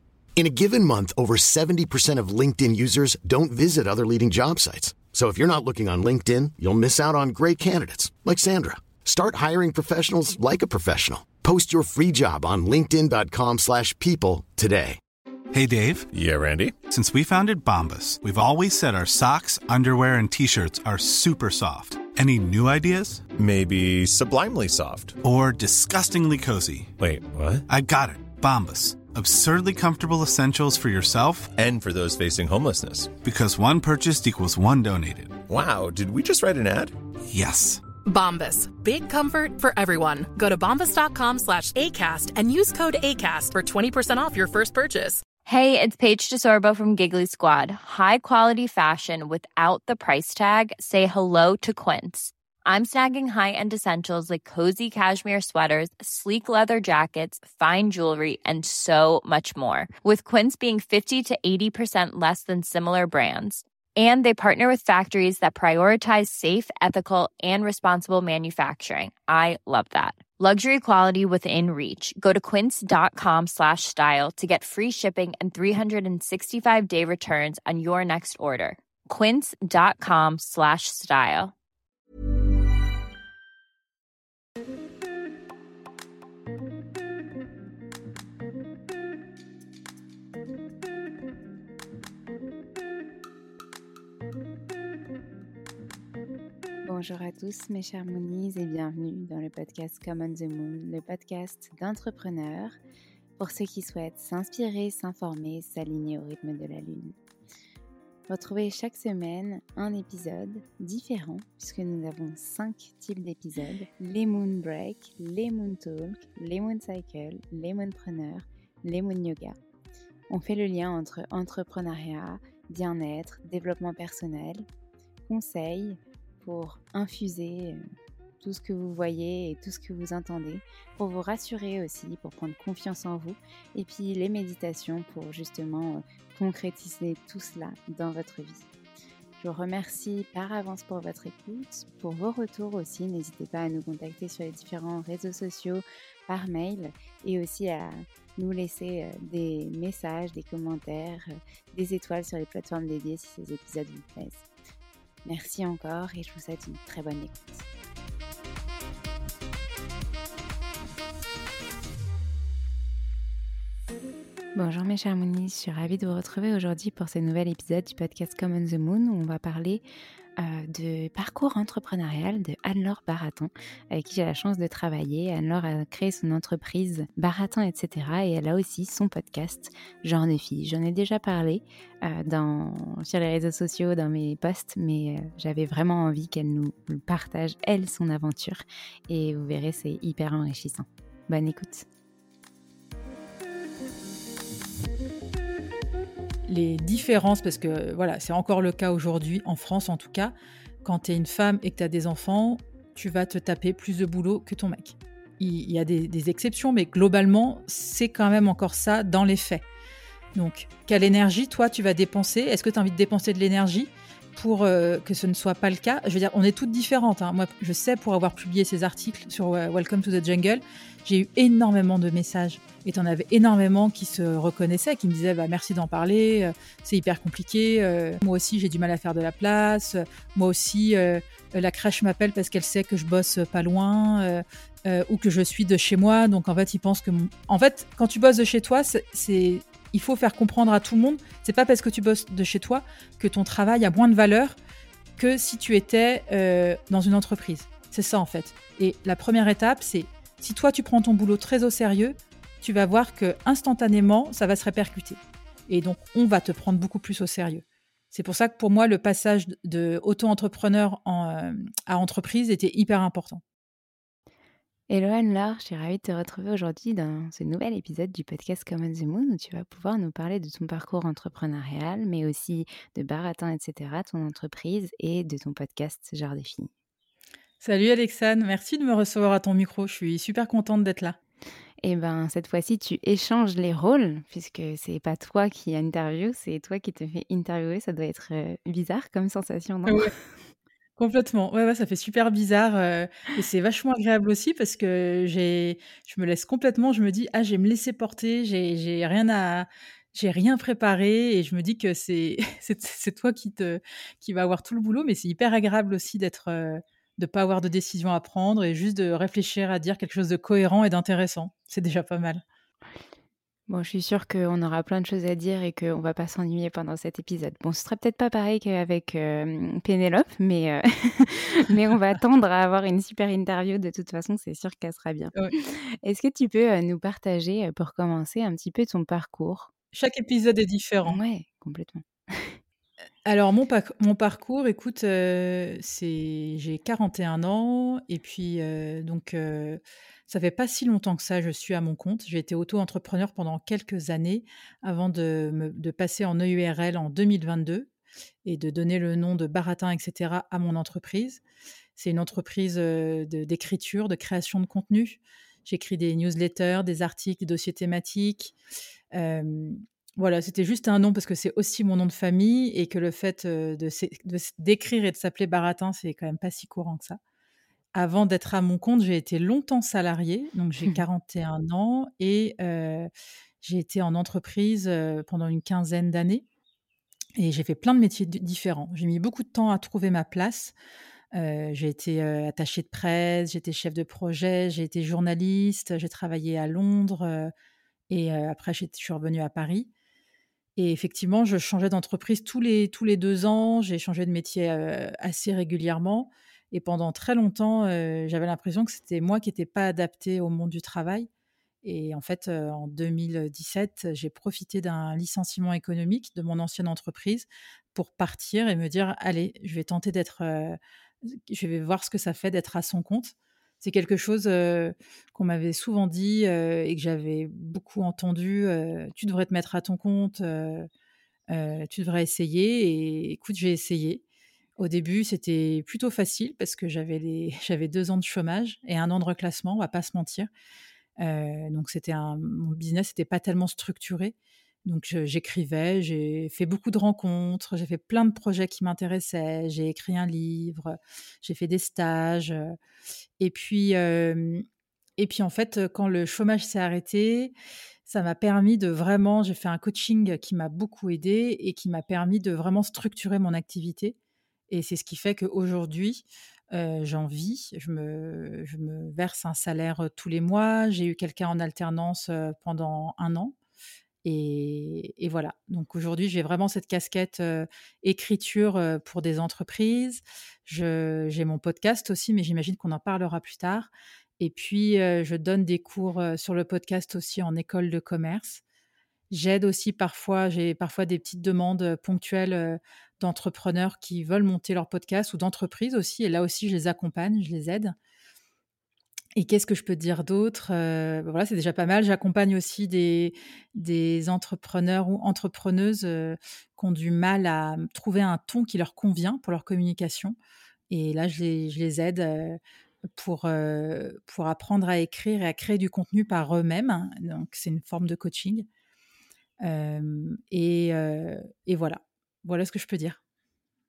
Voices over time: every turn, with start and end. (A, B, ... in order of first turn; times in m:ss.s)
0:00.4-0:15.0 A
0:15.5-0:16.1 B
0:16.1-0:16.8 C
0:16.8-0:23.3 B
0:23.4-0:25.2 C
0:25.2-0:26.9 B
0:27.0-0:27.6 C
0:27.7-0:31.5 B
0:31.6-0:33.2 C
0:33.2-0:35.4 B
0:35.5-0:36.9 C
0:37.3-0:37.8 B
0:38.0-0:45.2 D
0:45.5-1:21.5 E
1:36.8-1:42.8 F
1:43.4-1:47.1 F
1:48.3-1:59.6 F
2:00.3-2:04.6 F
2:05.3-2:07.8 F
2:08.4-2:18.7 F
2:19.4-2:34.4 F
2:35.2-2:37.6 F
2:44.5-2:49.8 F
2:50.4-3:11.8 F
3:16.5-3:29.6 G
3:30.3-4:04.6 G
4:05.2-4:23.4 G
4:24.9-4:36.7 F
4:37.6-4:41.2 G
4:41.8-4:50.1 F
4:49.9-4:50.1 G
4:51.0-5:12.4 G
5:13.7-5:29.7 F
5:29.9-5:31.2 G
5:31.0-5:32.6 F
5:33.2-5:47.9 G
5:48.4-5:51.4 G
5:52.0-5:58.5 G
5:59.1-6:07.2 G
6:07.9-6:13.1 G
6:13.6-6:16.4 G
6:17.4-6:20.7 G
6:21.3-6:27.5 G
6:28.1-6:29.9 G
6:30.8-6:41.3 G
6:41.8-7:00.9 G
7:01.5-7:04.2 G
7:04.8-7:10.5 G
7:11.2-7:22.8 G
7:23.4-7:24.6 G
7:25.2-7:27.5 G
7:28.0-7:34.2 G
7:34.7-7:43.5 G
7:44.2-7:58.6 G
7:59.3-8:08.0 G
8:09.3-8:20.4 G
8:20.9-8:22.6 G
8:23.1-8:28.7 G
8:29.6-8:33.2 G